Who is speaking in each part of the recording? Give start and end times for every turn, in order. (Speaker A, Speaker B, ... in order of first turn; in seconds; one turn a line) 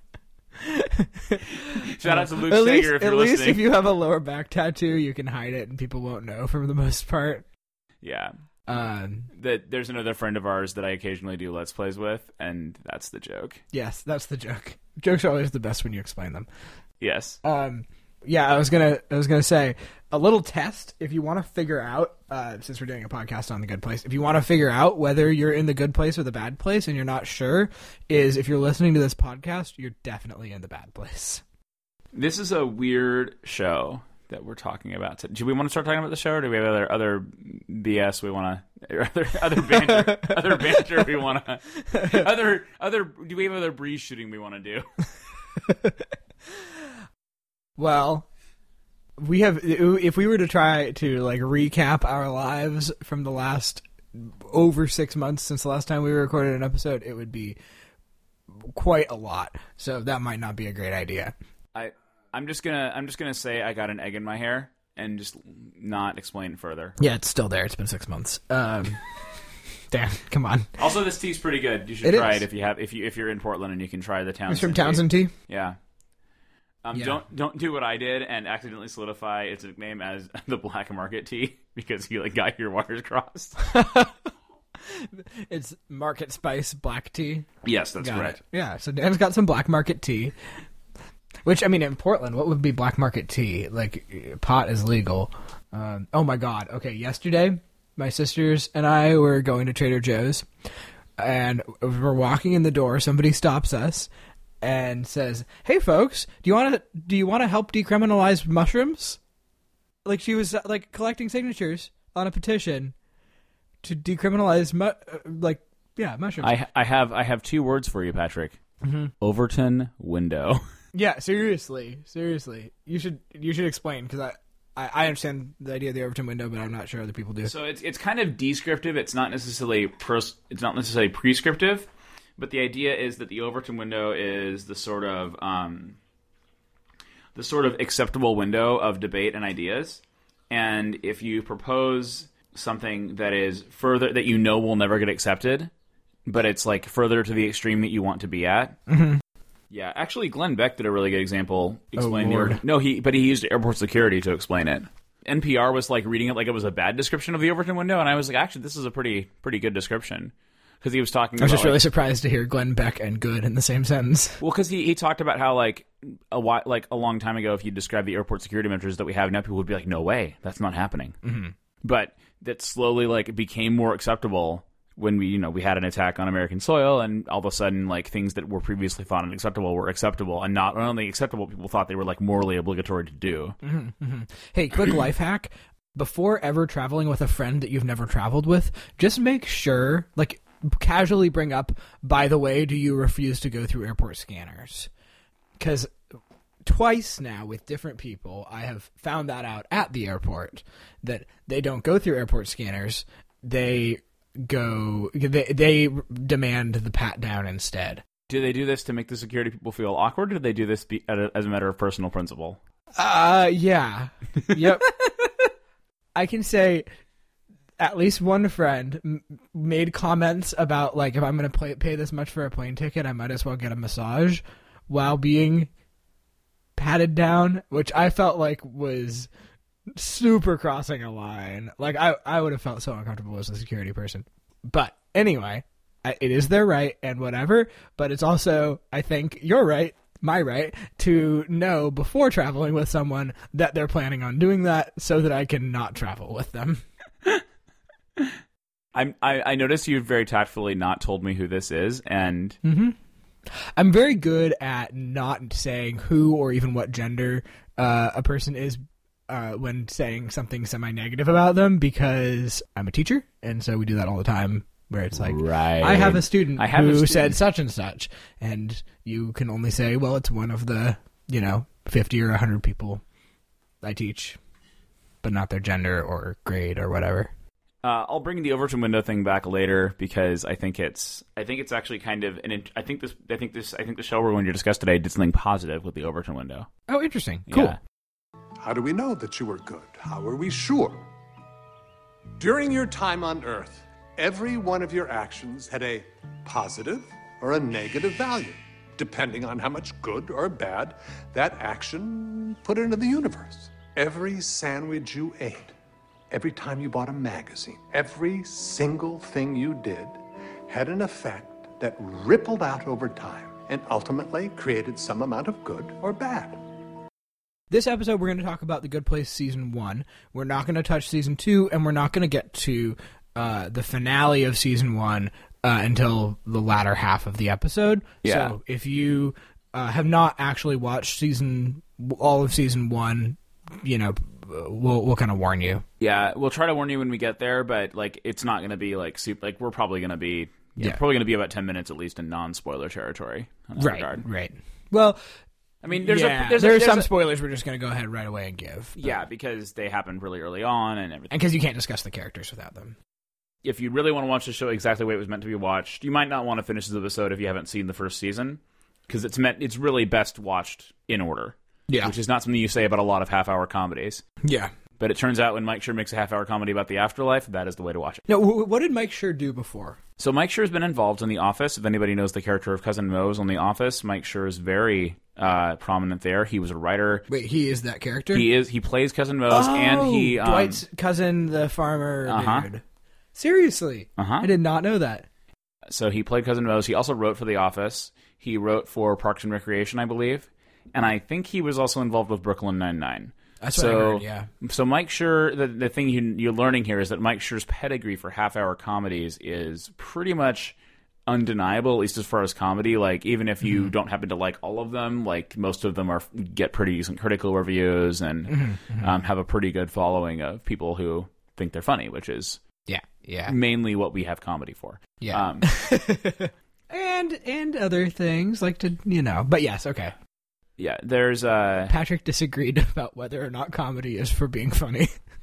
Speaker A: 0.5-7.5
Speaker B: 1.5-3.6
Speaker B: 8.0-8.3
Speaker A: 8.7-9.3
Speaker B: 9.3-13.6
Speaker A: 13.7-16.5
Speaker B: 17.0-17.4
Speaker A: 17.4-31.4
Speaker B: 32.1-45.0
Speaker A: 39.6-40.8
Speaker A: 41.9-42.3
Speaker A: 45.6-46.8
Speaker A: 47.8-48.3
Speaker A: 49.2-57.6
Speaker A: 58.5-61.3
Speaker B: 61.7-67.0
Speaker A: 67.0-70.8
Speaker B: 70.8-75.8
Speaker A: 72.0-72.4
Speaker A: 74.5-75.3
Speaker B: 76.8-83.7
Speaker A: 76.9-77.2
Speaker A: 83.6-84.2
Speaker A: 84.8-90.3
Speaker B: 87.6-88.4
Speaker A: 91.4-100.5
Speaker A: 101.2-104.1
Speaker A: 104.6-109.2
Speaker A: 110.0-112.9
Speaker A: 113.8-116.5
Speaker B: 116.4-118.6
Speaker A: 118.8-119.1
Speaker B: 119.2-120.7
Speaker A: 120.9-127.5
Speaker B: 127.4-136.0
Speaker B: 137.3-145.7
Speaker B: 146.2-148.8
Speaker A: 148.9-149.2
Speaker B: 149.7-161.8
Speaker A: 152.0-152.6
Speaker A: 161.4-164.4
Speaker B: 164.4-171.2
Speaker A: 171.2-171.5
Speaker B: 171.8-183.6
Speaker A: 183.6-194.9
Speaker A: 195.6-195.9
Speaker A: 196.6-208.0
Speaker B: 208.3-212.6
Speaker A: 212.9-215.4
Speaker A: 216.1-216.8
Speaker A: 217.8-225.7
Speaker A: 226.8-229.3
Speaker A: 229.9-246.8
Speaker B: 248.9-252.6
Speaker A: 252.6-253.0
Speaker A: 253.5-273.0
Speaker B: 265.1-267.4
Speaker A: 273.8-274.4
Speaker A: 275.2-277.3
Speaker B: 277.8-286.7
Speaker A: 286.9-287.8
Speaker B: 287.5-287.8
Speaker C: 288.6-291.0
Speaker C: 292.4-305.7
Speaker C: 306.3-316.6
Speaker A: 317.7-335.8
Speaker B: 328.2-328.5
Speaker B: 336.0-344.2
Speaker A: 343.8-345.2
Speaker B: 345.8-347.1
Speaker A: 346.0-349.2
Speaker B: 349.0-351.3
Speaker A: 351.3-353.0
Speaker B: 353.6-364.2
Speaker A: 361.9-362.1
Speaker A: 364.4-364.7
Speaker B: 365.0-368.2
Speaker A: 368.3-370.0
Speaker B: 370.2-377.2
Speaker A: 377.3-378.5
Speaker B: 378.3-380.8
Speaker A: 379.5-382.8
Speaker B: 382.2-382.7
Speaker A: 383.3-385.2
Speaker B: 384.2-384.5
Speaker B: 385.9-400.7
Speaker A: 393.6-394.5
Speaker B: 401.3-412.6
Speaker A: 403.6-403.9
Speaker A: 408.5-409.1
Speaker A: 412.9-413.5
Speaker B: 413.5-415.7
Speaker A: 415.2-420.1
Speaker B: 420.8-421.9
Speaker A: 421.9-425.1